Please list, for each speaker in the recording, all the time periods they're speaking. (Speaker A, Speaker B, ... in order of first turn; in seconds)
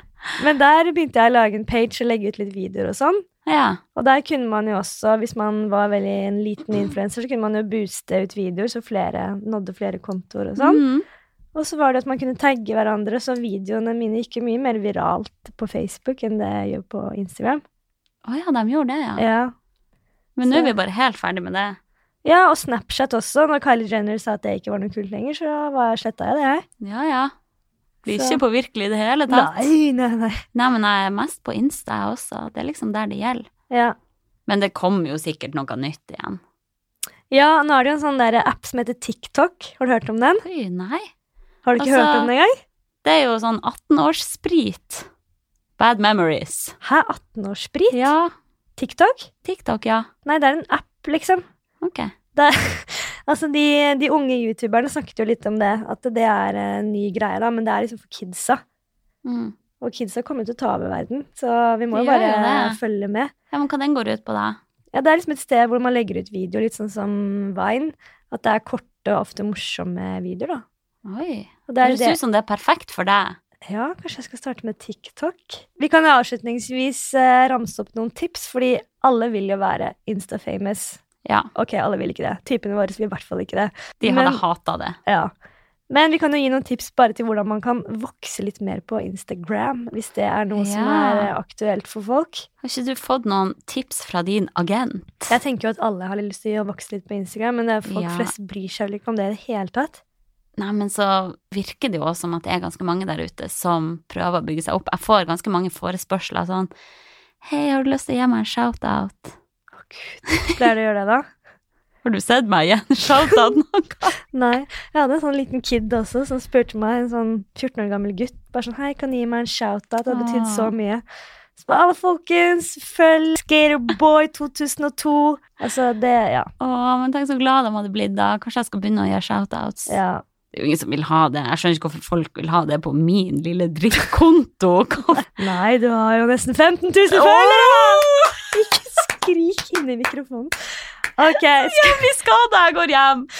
Speaker A: 0.4-3.2, 3.9-10.8, 11.5-17.6, 19.2-19.5, 20.4-20.7, 22.2-26.6, 28.1-28.4, 29.3-30.4, 33.7-34.0, 37.3-40.4, 41.6-42.5, 46.8-48.1, 48.8-49.3, 50.2-51.4, 52.3-58.6, 59.8-63.3, 64.9-70.6, 71.7-72.2, 73.7-81.0, 81.5-84.4, 85.0-85.3, 85.9-92.5, 95.3-100.0, 109.8-111.3, 114.3-121.0, 121.6-126.5, 129.9-130.2, 135.3-140.5, 141.2-142.0
Speaker B: 3.5-3.8, 10.6-11.0, 18.2-19.2, 20.4-21.8, 26.8-27.3, 28.0-29.5, 30.5-33.5, 34.5-36.4, 40.4-41.1, 41.8-42.3, 43.0-45.1, 45.8-46.7, 47.9-48.3, 49.4-50.1, 51.8-52.1, 59.2-59.5, 61.9-62.8, 63.5-64.6, 71.0-73.4, 81.2-81.5, 84.0-85.0, 90.5-91.3, 92.6-95.3, 97.9-98.3, 100.6-106.7, 107.4-109.3, 112.0-114.1, 120.1-120.7, 126.6-129.9, 130.5-135.3, 137.1-138.4, 141.6-143.3